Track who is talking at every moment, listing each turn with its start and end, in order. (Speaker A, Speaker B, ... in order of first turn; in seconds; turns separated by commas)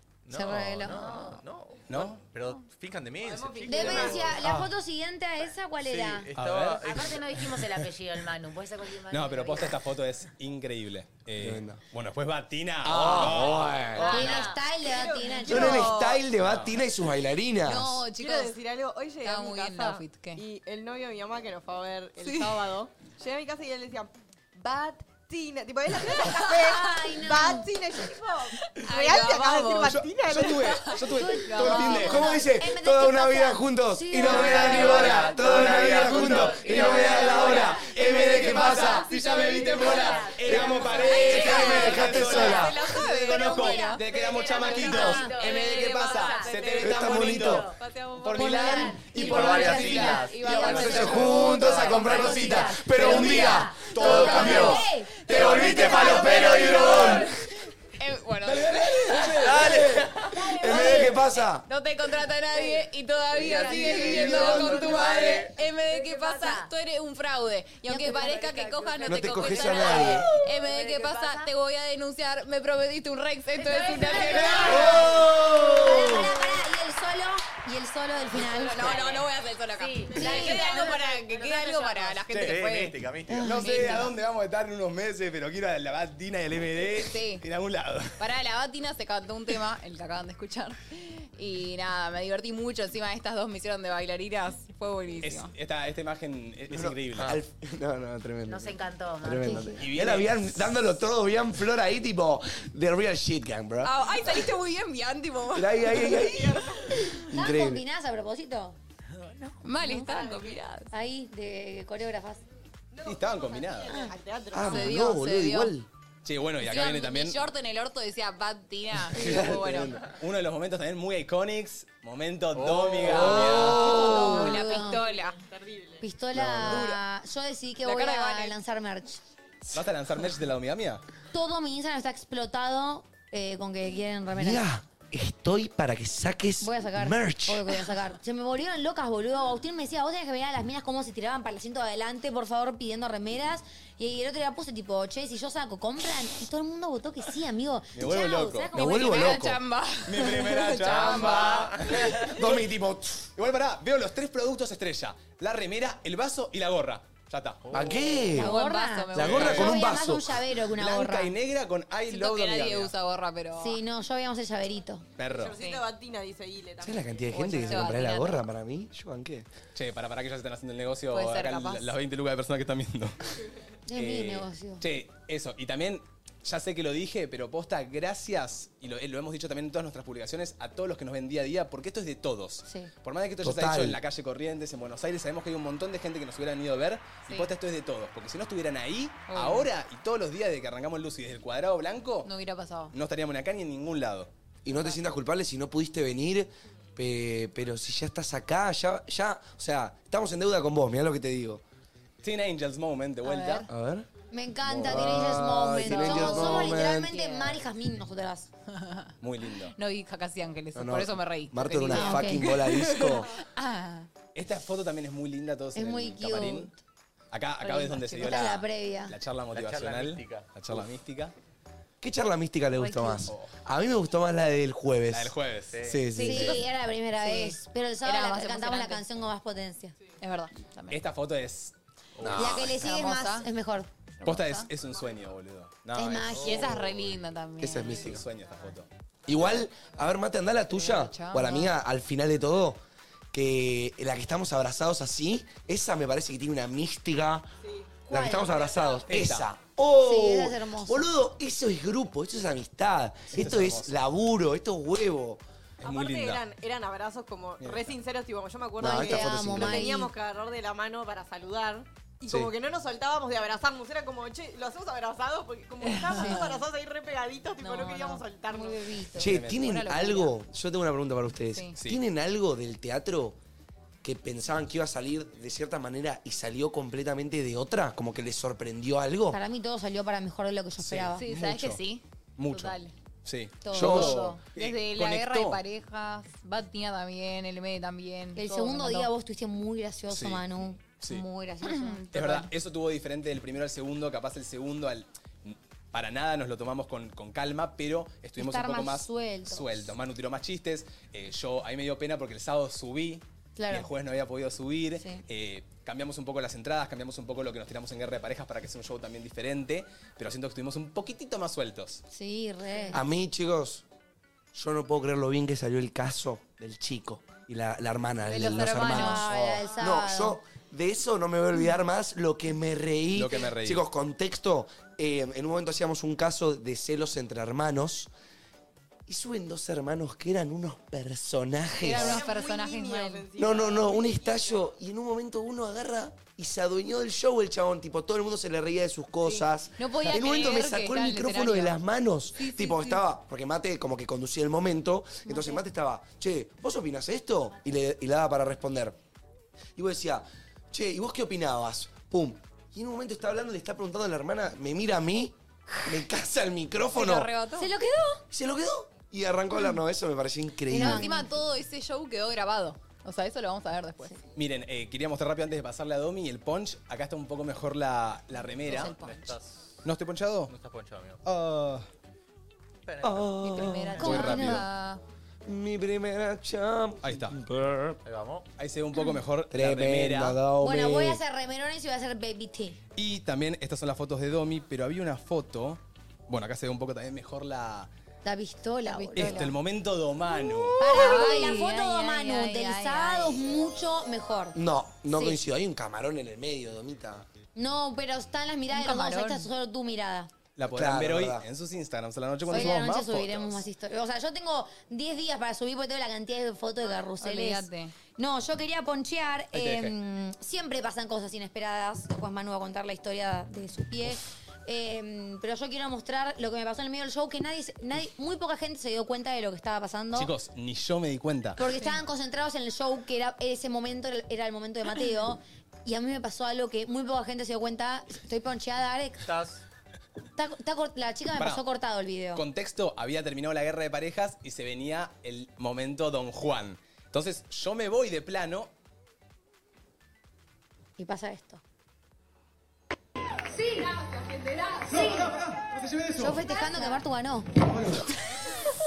Speaker A: 0.2-4.5, Speaker B: 0.3-1.4, Speaker C: 1.9-2.2, Speaker D: 3.2-4.4, Speaker B: 3.7-6.3, Speaker A: 5.8-7.2, Speaker C: 6.3-6.9, Speaker E: 6.8-9.8, Speaker C: 9.1-13.9, Speaker F: 11.4-11.8, Speaker F: 12.8-14.1, Speaker A: 12.9-13.8, Speaker E: 14.0-14.6, Speaker D: 14.0-16.2, Speaker B: 14.0-16.0, Speaker F: 15.4-18.0, Speaker G: 15.5-16.1, Speaker C: 16.4-16.7, Speaker G: 17.6-18.6, Speaker D: 18.1-30.9, Speaker G: 19.2-20.4, Speaker G: 22.2-22.6, Speaker G: 26.1-26.5, Speaker B: 26.5-27.7, Speaker G: 28.6-32.2, Speaker C: 29.8-32.3, Speaker B: 31.1-35.4, Speaker F: 31.7-39.2, Speaker C: 34.2-51.5, Speaker G: 34.4-35.2, Speaker G: 35.8-37.7, Speaker E: 37.2-37.7, Speaker G: 38.4-40.2, Speaker E: 39.1-41.0, Speaker D: 39.2-40.2, Speaker F: 40.4-42.8, Speaker G: 40.9-75.2, Speaker B: 41.3-44.0, Speaker E: 44.2-46.6, Speaker D: 44.3-47.4, Speaker B: 44.8-45.3, Speaker F: 46.8-47.7, Speaker B: 48.3-56.7, Speaker A: 49.2-50.4, Speaker F: 50.5-57.3, Speaker C: 53.0-54.8, Speaker C: 56.7-57.2, Speaker C: 58.4-59.9, Speaker F: 59.5-61.6, Speaker A: 59.5-60.2, Speaker E: 63.5-65.4, Speaker D: 63.8-64.5, Speaker F: 64.0-65.0, Speaker D: 65.0-65.3, Speaker E: 65.9-66.7, Speaker B: 67.9-68.2, Speaker D: 68.2-71.0, Speaker E: 68.4-68.9, Speaker F: 69.1-70.3, Speaker E: 69.5-70.0, Speaker E: 70.6-71.5, Speaker E: 73.6-74.8, Speaker B: 73.9-79.2, Speaker D: 74.0-74.6, Speaker F: 74.6-76.3, Speaker G: 78.4-84.1, Speaker E: 79.8-82.2, Speaker D: 80.1-81.2, Speaker B: 80.2-80.7, Speaker C: 82.3-82.6, Speaker A: 82.4-83.7, Speaker B: 83.3-84.0, Speaker C: 83.4-88.2, Speaker G: 86.9-87.4, Speaker G: 88.2-95.5, Speaker C: 95.2-97.3, Speaker F: 96.7-104.0, Speaker E: 98.5-99.8, Speaker B: 99.4-99.7, Speaker C: 99.8-100.8, Speaker G: 103.8-106.4, Speaker F: 105.5-107.8, Speaker D: 106.0-106.8, Speaker B: 107.3-108.8, Speaker G: 109.6-110.9, Speaker B: 109.8-110.1, Speaker D: 110.0-110.6, Speaker B: 110.9-112.4, Speaker D: 112.9-115.2, Speaker C: 113.0-114.0, Speaker B: 113.9-114.1, Speaker F: 114.5-115.9, Speaker G: 114.7-115.7, Speaker C: 116.2-117.4, Speaker G: 116.6-119.9, Speaker F: 119.0-120.1, Speaker C: 120.1-124.0, Speaker A: 122.5-123.2, Speaker F: 123.0-124.4, Speaker G: 123.2-125.4, Speaker B: 123.8-125.0, Speaker D: 124.4-126.0, Speaker B: 126.0-129.2, Speaker F: 126.3-126.8, Speaker G: 126.6-127.0, Speaker G: 127.8-128.5, Speaker C: 129.7-131.0, Speaker B: 131.3-134.6, Speaker F: 134.3-137.7, Speaker B: 136.6-149.4, Speaker C: 147.9-148.7, Speaker F: 148.7-149.6, Speaker G: 148.8-152.4, Speaker C: 150.0-152.5, Speaker F: 152.2-153.3, Speaker C: 153.3-157.7, Speaker A: 157.7-158.1, Speaker F: 157.7-158.5, Speaker B: 158.3-161.3, Speaker G: 158.3-159.6, Speaker F: 159.1-160.4, Speaker C: 159.2-159.8, Speaker C: 160.8-162.9, Speaker G: 162.1-163.8, Speaker B: 163.6-165.1, Speaker C: 165.2-165.6, Speaker D: 165.3-167.9, Speaker G: 165.6-165.8, Speaker F: 166.8-169.5, Speaker G: 167.3-168.4, Speaker C: 169.7-173.3, Speaker G: 171.1-171.9, Speaker B: 173.9-174.8, Speaker C: 173.9-192.3, Speaker B: 182.6-182.9, Speaker F: 183.4-184.0, Speaker G: 189.3-189.7, Speaker G: 192.2-192.9, Speaker C: 192.9-194.3, Speaker F: 194.6-201.6, Speaker C: 202.2-203.7, Speaker G: 203.2-203.7, Speaker F: 203.7-204.1, Speaker B: 204.3-208.5, Speaker F: 204.6-207.1, Speaker G: 205.9-207.6, Speaker G: 208.7-209.1, Speaker C: 209.2-209.7, Speaker G: 209.7-214.1, Speaker F: 210.7-213.3, Speaker B: 211.9-212.5, Speaker C: 214.3-216.7, Speaker B: 215.7-216.8, Speaker C: 217.3-221.3, Speaker G: 217.6-218.4, Speaker B: 218.2-219.2, Speaker A: 219.5-220.5, Speaker F: 222.0-226.6, Speaker G: 222.8-223.2, Speaker C: 223.3-223.5, Speaker C: 225.1-226.6, Speaker A: 225.7-226.1, Speaker B: 226.1-229.9, Speaker G: 227.2-229.0, Speaker G: 230.2-231.0, Speaker C: 230.9-231.7, Speaker A: 232.2-232.6, Speaker B: 232.3-233.9, Speaker G: 232.5-233.5, Speaker G: 234.2-234.7, Speaker C: 234.2-236.8, Speaker B: 235.9-236.8, Speaker G: 236.4-238.2, Speaker F: 237.6-238.2, Speaker C: 237.9-238.9, Speaker F: 239.2-242.8, Speaker G: 240.7-241.7, Speaker F: 243.3-247.5, Speaker D: 247.6-249.2, Speaker B: 248.1-248.7, Speaker F: 248.1-255.4, Speaker C: 249.1-249.5, Speaker B: 250.0-251.1, Speaker C: 253.3-253.9, Speaker C: 255.8-256.4, Speaker D: 255.8-269.1, Speaker C: 257.6-258.0, Speaker F: 258.8-260.0, Speaker B: 258.8-260.1, Speaker G: 265.8-266.6, Speaker G: 267.6-268.2, Speaker B: 268.5-269.2, Speaker F: 269.2-273.4, Speaker C: 269.2-269.6, Speaker G: 269.3-270.3, Speaker F: 274.0-279.4, Speaker B: 279.3-281.2, Speaker C: 280.8-281.8, Speaker G: 281.2-282.9, Speaker C: 282.4-285.6, Speaker B: 283.6-284.3, Speaker F: 283.7-284.3, Speaker G: 283.8-289.1, Speaker B: 288.4-292.1, Speaker C: 290.1-290.4, Speaker C: 291.0-291.2, Speaker G: 291.6-292.5, Speaker C: 292.1-312.0, Speaker B: 298.4-299.9, Speaker B: 303.6-303.9, Speaker B: 312.1-313.0, Speaker F: 312.9-313.8, Speaker F: 314.5-328.1, Speaker G: 318.2-319.6, Speaker B: 318.7-320.4, Speaker C: 323.1-323.8, Speaker F: 329.1-332.2, Speaker G: 331.8-333.3, Speaker D: 331.8-334.7, Speaker F: 333.4-348.9, Speaker G: 339.2-341.8, Speaker G: 342.3-343.0, Speaker B: 345.2-345.6, Speaker F: 349.8-357.3, Speaker G: 356.9-357.7, Speaker B: 357.6-358.2, Speaker F: 358.3-361.1, Speaker B: 360.7-361.4, Speaker G: 360.7-364.1, Speaker C: 364.4-369.0, Speaker G: 368.6-369.3, Speaker A: 368.7-369.8, Speaker C: 369.8-370.5, Speaker A: 370.5-371.2, Speaker C: 371.2-371.9, Speaker A: 372.9-373.6, Speaker F: 373.0-374.1, Speaker G: 373.4-375.0, Speaker B: 374.0-374.6, Speaker C: 374.0-374.6, Speaker F: 375.4-378.0, Speaker C: 377.0-377.4, Speaker A: 378.0-378.4, Speaker C: 378.6-380.4, Speaker F: 379.5-381.2, Speaker B: 380.6-382.8, Speaker C: 382.9-387.9, Speaker B: 388.2-389.5, Speaker G: 388.9-389.5, Speaker C: 389.1-390.8, Speaker G: 390.7-393.5, Speaker B: 390.8-394.6, Speaker F: 394.5-397.2, Speaker B: 395.1-395.4, Speaker B: 397.6-400.3, Speaker G: 398.7-399.5, Speaker C: 400.6-403.6, Speaker F: 400.7-401.4, Speaker B: 402.5-420.3, Speaker G: 407.2-407.9, Speaker C: 409.5-409.9, Speaker C: 420.1-421.6, Speaker B: 421.6-429.3, Speaker A: 429.2-429.6, Speaker B: 430.4-432.4, Speaker C: 431.4-431.6, Speaker C: 432.3-438.7, Speaker B: 441.0-441.6, Speaker B: 444.9-445.3, Speaker B: 446.1-447.6